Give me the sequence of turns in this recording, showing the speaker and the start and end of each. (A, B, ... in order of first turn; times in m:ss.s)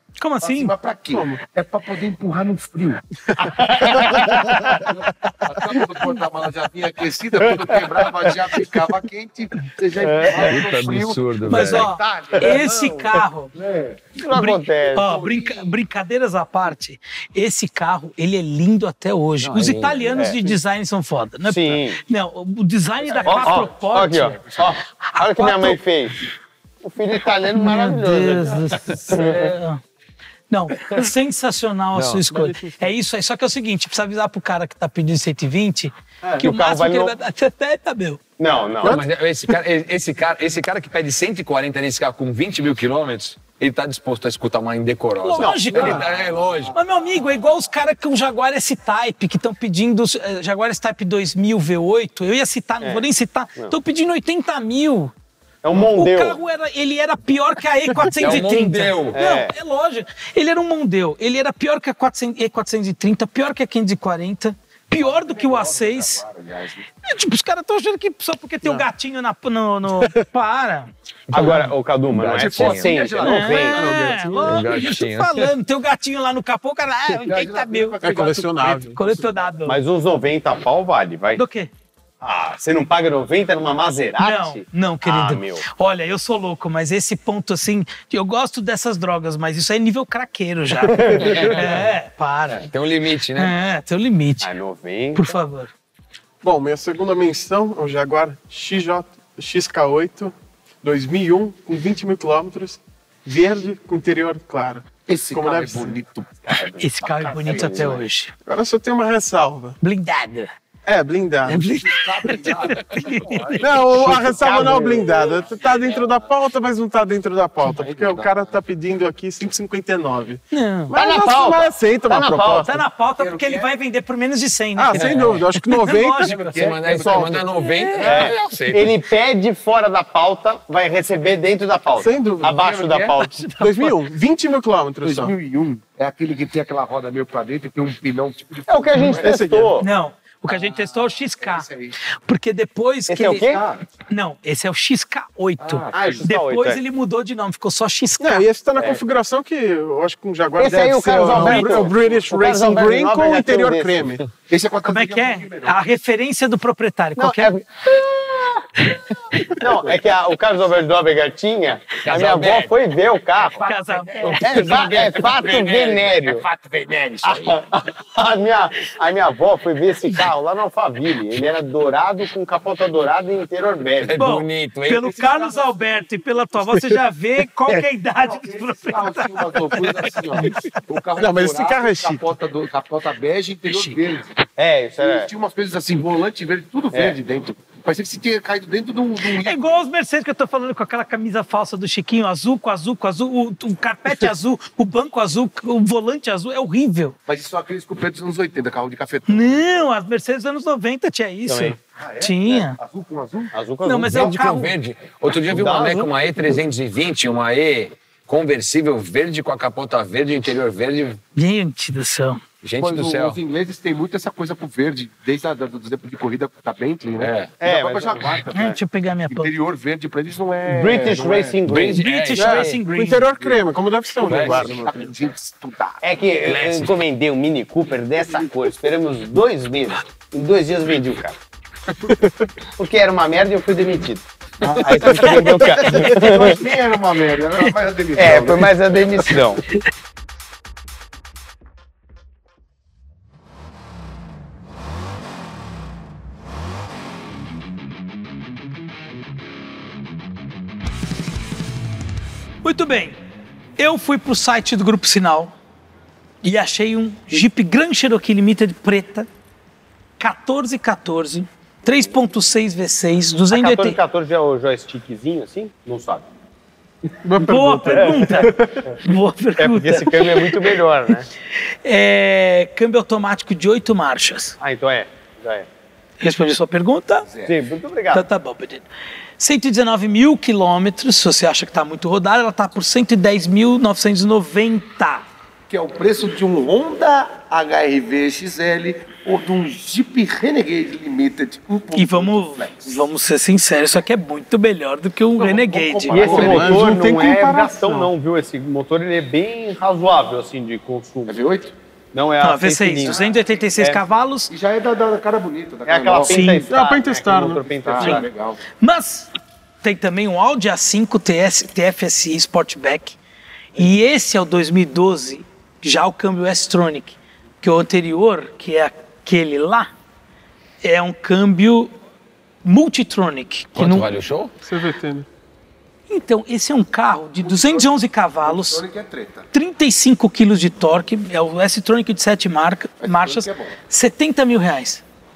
0:00.2-0:00.7 A
0:00.4-0:03.5 B
0:01.1-0:01.4 C
0:03.4-0:04.9 D
0:04.8-0:14.0 B
0:07.5-0:08.0 D
0:09.9-0:10.6 D
0:10.4-0:11.9 E
0:11.4-0:13.5 A
0:14.2-0:15.1 D
0:14.2-0:25.8 A
0:15.0-0:15.8 B
0:19.4-0:20.3 E
0:20.2-0:20.6 D
0:21.4-0:22.0 D
0:23.1-0:23.7 B
0:23.2-0:26.2 D
0:26.8-0:29.5 D
0:27.5-0:29.8 A
0:30.5-0:38.2 A
0:31.9-0:32.2 E
0:32.3-0:32.9 C
0:36.2-0:37.1 D
0:38.4-0:39.0 D
0:38.8-0:39.1 C
0:38.8-0:46.7 E
0:45.2-0:46.1 A
0:45.4-0:46.0 D
0:46.7-0:55.1 A
0:52.8-0:53.7 D
0:55.6-0:56.4 D
0:55.7-1:06.2 A
0:58.2-0:59.2 E
0:59.1-0:59.6 D
1:05.0-1:06.8 B
1:07.0-1:10.9 A
1:11.3-1:13.9 D
1:11.3-1:13.1 E
1:12.3-1:14.0 B
1:13.2-1:18.0 A
1:13.7-1:14.7 C
1:14.4-1:15.5 E
1:17.1-1:19.4 B
1:18.0-1:19.0 C
1:18.9-1:19.8 A
1:19.6-1:21.4 D
1:21.3-1:21.7 A
1:22.2-1:25.6 D
1:24.2-1:32.7 A
1:30.9-1:31.6 D
1:31.0-1:31.4 C
1:31.3-1:31.7 E
1:32.6-1:33.5 E
1:33.3-1:34.5 A
1:34.4-1:35.3 D
1:35.1-1:35.7 A
1:36.4-1:46.0 C
1:45.0-1:48.0 B
1:46.4-1:48.0 D
1:46.8-1:48.3 A
1:48.4-1:49.8 C
1:49.8-1:50.5 A
1:50.8-1:51.6 C
1:51.4-1:53.8 A
1:51.5-1:56.2 B
1:53.6-2:02.8 C
1:54.0-1:55.2 D
1:57.6-1:58.6 B
2:00.5-2:00.9 A
2:00.9-2:02.7 D
2:02.6-2:06.6 A
2:03.1-2:03.7 B
2:04.8-2:06.3 C
2:04.9-2:05.4 E
2:06.2-2:07.5 B
2:06.6-2:09.0 E
2:07.0-2:07.3 D
2:07.6-2:08.3 A
2:08.0-2:13.5 D
2:12.0-2:12.6 C
2:12.4-2:13.2 B
2:13.4-2:13.7 A
2:13.6-2:15.3 C
2:15.0-2:19.5 B
2:18.7-2:19.9 D
2:18.9-2:19.8 C
2:19.8-2:23.6 A
2:20.5-2:22.0 B
2:23.1-2:23.6 D
2:23.2-2:23.8 B
2:24.1-2:28.4 A
2:25.6-2:26.3 B
2:25.9-2:26.8 D
2:28.2-2:34.2 C
2:30.6-2:34.1 D
2:31.2-2:32.2 B
2:31.2-2:31.8 A
2:34.4-2:35.8 B
2:34.8-2:37.5 A
2:37.2-2:43.6 D
2:42.0-2:42.7 E
2:43.6-2:44.8 A
2:43.7-2:47.6 E
2:44.2-2:45.0 B
2:44.4-2:46.4 D
2:47.2-2:54.2 D
2:54.0-2:55.2 E
2:54.2-3:00.7 A
2:55.1-2:56.0 B
2:56.6-2:57.0 C
2:58.2-3:04.4 B
3:01.2-3:02.3 C
3:03.7-3:04.0 A
3:04.6-3:05.3 D
3:05.0-3:09.8 B
3:06.9-3:07.2 D
3:09.3-3:17.2 A
3:17.3-3:19.9 B
3:19.3-3:22.8 A
3:21.5-3:21.8 D
3:21.9-3:23.5 B
3:23.5-3:24.4 D
3:23.8-3:24.7 A
3:24.1-3:31.2 E
3:25.4-3:26.1 D
3:31.4-3:32.4 A
3:32.6-3:33.4 E
3:32.8-3:41.6 B
3:37.2-3:37.5 E
3:37.6-3:38.8 D
3:38.5-3:39.5 A
3:40.7-3:42.0 D
3:41.6-3:42.8 E
3:42.0-3:43.3 A
3:42.3-3:44.9 C
3:44.2-3:46.0 B
3:44.2-3:44.8 E
3:46.0-3:51.4 D
3:46.4-3:47.0 E
3:52.1-3:52.5 C
3:52.8-3:56.6 D
3:54.6-3:59.4 B
3:54.9-3:56.0 C
3:58.1-3:59.6 D
4:12.6-4:13.2 A
4:13.8-4:15.5 A
4:16.4-4:19.3 A
4:20.2-4:24.0 A
4:23.5-4:26.3 D
4:27.1-4:28.9 C
4:27.4-4:30.8 A
4:27.9-4:28.4 D
4:29.6-4:31.3 D
4:31.5-4:34.6 A
4:34.6-4:35.7 D
4:36.2-4:37.3 A
4:37.2-4:37.6 B
4:37.4-4:38.2 D
4:38.1-4:38.8 A
4:39.4-4:45.2 A
4:45.7-4:53.1 B
4:51.9-4:56.6 A
4:55.4-4:56.9 B
4:56.1-5:01.4 D
4:56.2-4:58.1 C
5:01.2-5:01.7 B
5:02.1-5:03.2 D
5:02.4-5:04.5 A
5:03.0-5:03.5 B
5:03.8-5:04.0 D
5:04.5-5:06.6 B
5:05.8-5:08.3 D
5:06.3-5:06.7 A
5:06.7-5:07.6 C
5:07.6-5:08.6 B
5:08.8-5:09.3 A
5:09.8-5:13.2 A
5:13.7-5:19.9 A
5:20.8-5:21.9 A
5:22.6-5:24.1 A
5:23.7-5:24.5 E
5:24.6-5:25.3 C
5:26.1-5:28.8 A
5:27.4-5:29.5 B
5:29.5-5:35.0 A
5:33.0-5:33.8 B